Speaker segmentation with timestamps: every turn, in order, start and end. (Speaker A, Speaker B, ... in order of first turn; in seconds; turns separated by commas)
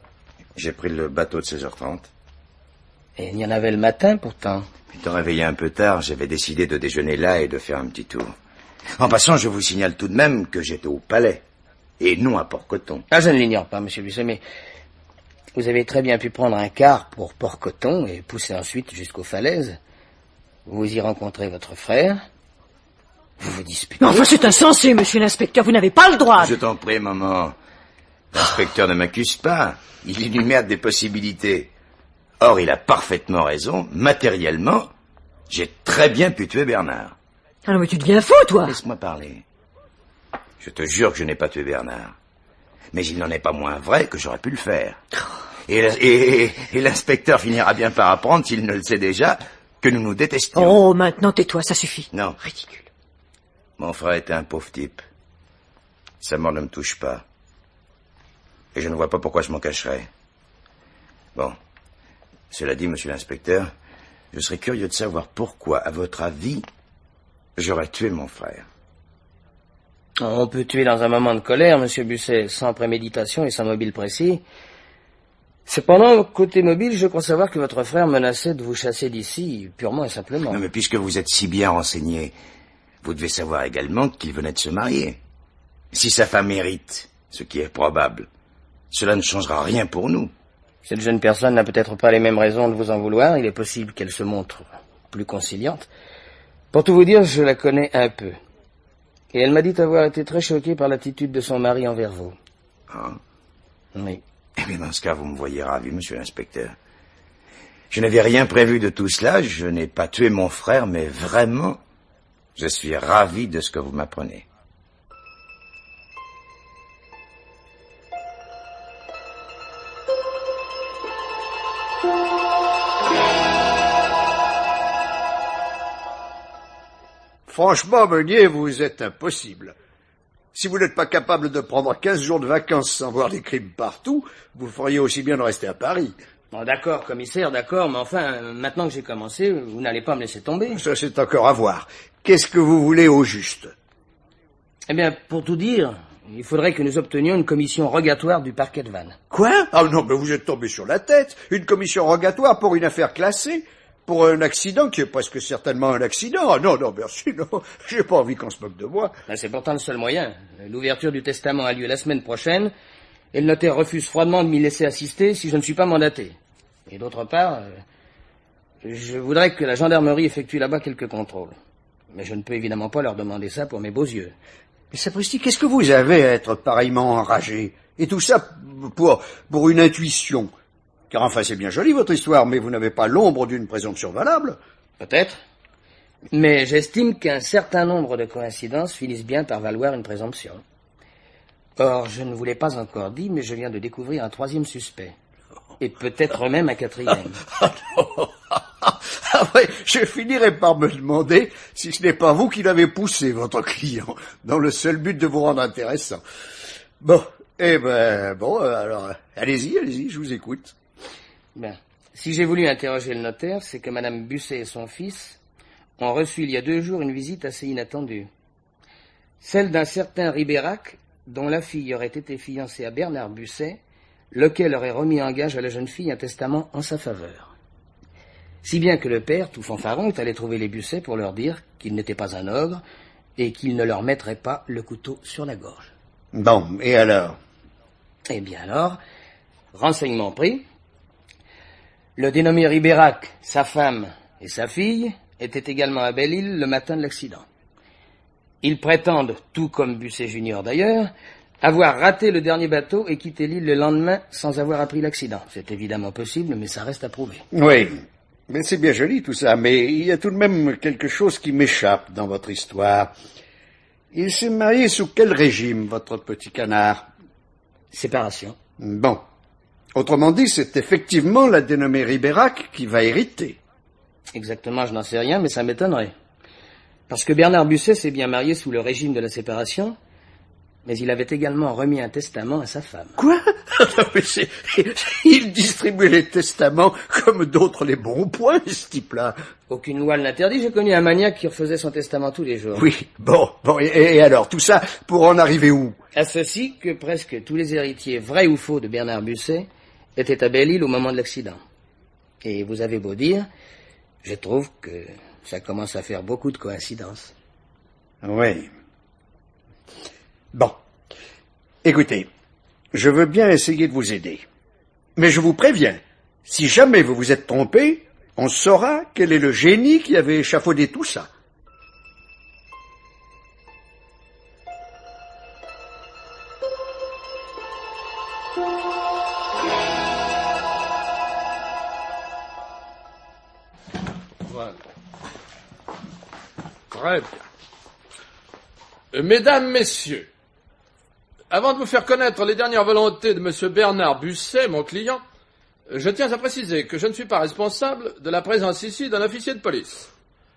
Speaker A: 0.6-2.1, Speaker B: 3.1-4.7, Speaker A: 4.9-8.3, Speaker A: 9.0-11.4, Speaker A: 12.0-13.1, Speaker B: 13.1-14.4, Speaker B: 15.5-19.8, Speaker B: 20.6-22.2, Speaker B: 23.4-24.2, Speaker C: 24.0-26.6, Speaker A: 26.4-27.6, Speaker A: 28.3-31.7, Speaker A: 32.4-34.9, Speaker A: 35.5-37.1, Speaker C: 37.6-38.8, Speaker A: 38.6-39.4, Speaker A: 40.6-42.1, Speaker A: 42.9-45.0, Speaker A: 45.7-50.8, Speaker C: 50.5-52.9, Speaker A: 52.1-52.4, Speaker A: 53.8-55.0, Speaker A: 56.2-57.2, Speaker A: 58.7-60.1, Speaker A: 62.5-63.7, Speaker A: 64.3-66.7, Speaker A: 67.6-68.7, Speaker B: 70.2-74.4, Speaker B: 75.7-80.6, Speaker A: 80.5-82.3, Speaker A: 83.0-85.2, Speaker A: 85.9-88.3, Speaker A: 88.9-90.3, Speaker B: 90.8-95.9, Speaker B: 96.7-98.4, Speaker B: 99.3-102.3, Speaker A: 102.9-103.2, Speaker B: 103.9-104.2, Speaker A: 104.6-106.8, Speaker A: 107.9-111.8, Speaker A: 112.5-114.5, Speaker D: 127.5-129.7, Speaker D: 130.5-136.1, Speaker B: 136.5-140.8, Speaker D: 140.7-143.7, Speaker B: 144.9-149.2, Speaker D: 149.3-159.1, Speaker B: 159.3-162.7, Speaker B: 163.3-167.8, Speaker B: 168.8-171.5, Speaker B: 172.1-174.3, Speaker D: 174.9-180.5, Speaker D: 181.1-184.6, Speaker B: 185.0-185.4, Speaker B: 186.3-190.6, Speaker B: 191.8-195.2, Speaker B: 195.8-197.4, Speaker D: 197.6-206.2, Speaker D: 207.0-210.8, Speaker B: 211.5-215.4, Speaker B: 216.0-218.3, Speaker B: 219.4-223.8, Speaker B: 224.3-227.5, Speaker B: 228.6-232.8, Speaker B: 233.4-235.9, Speaker D: 236.3-237.4, Speaker B: 238.3-239.0, Speaker B: 239.7-240.6, Speaker B: 242.2-247.4, Speaker B: 248.6-257.4, Speaker D: 257.5-263.1, Speaker D: 264.1-267.1, Speaker B: 267.9-268.6, Speaker D: 268.8-269.2, Speaker D: 269.9-273.6, Speaker B: 274.3-276.1, Speaker B: 277.1-280.0, Speaker B: 280.8-283.1, Speaker D: 283.2-289.3, Speaker B: 289.7-292.8, Speaker D: 292.8-296.0, Speaker B: 296.1-301.6, Speaker B: 302.4-303.5, Speaker B: 304.2-307.3, Speaker D: 308.2-308.7, Speaker D: 311.8-312.3, Speaker D: 312.9-314.4, Speaker D: 315.1-321.3, Speaker E: 334.4-334.8, Speaker E: 336.9-337.4, Speaker E: 339.1-340.3, Speaker E: 341.5-345.2, Speaker E: 345.9-350.1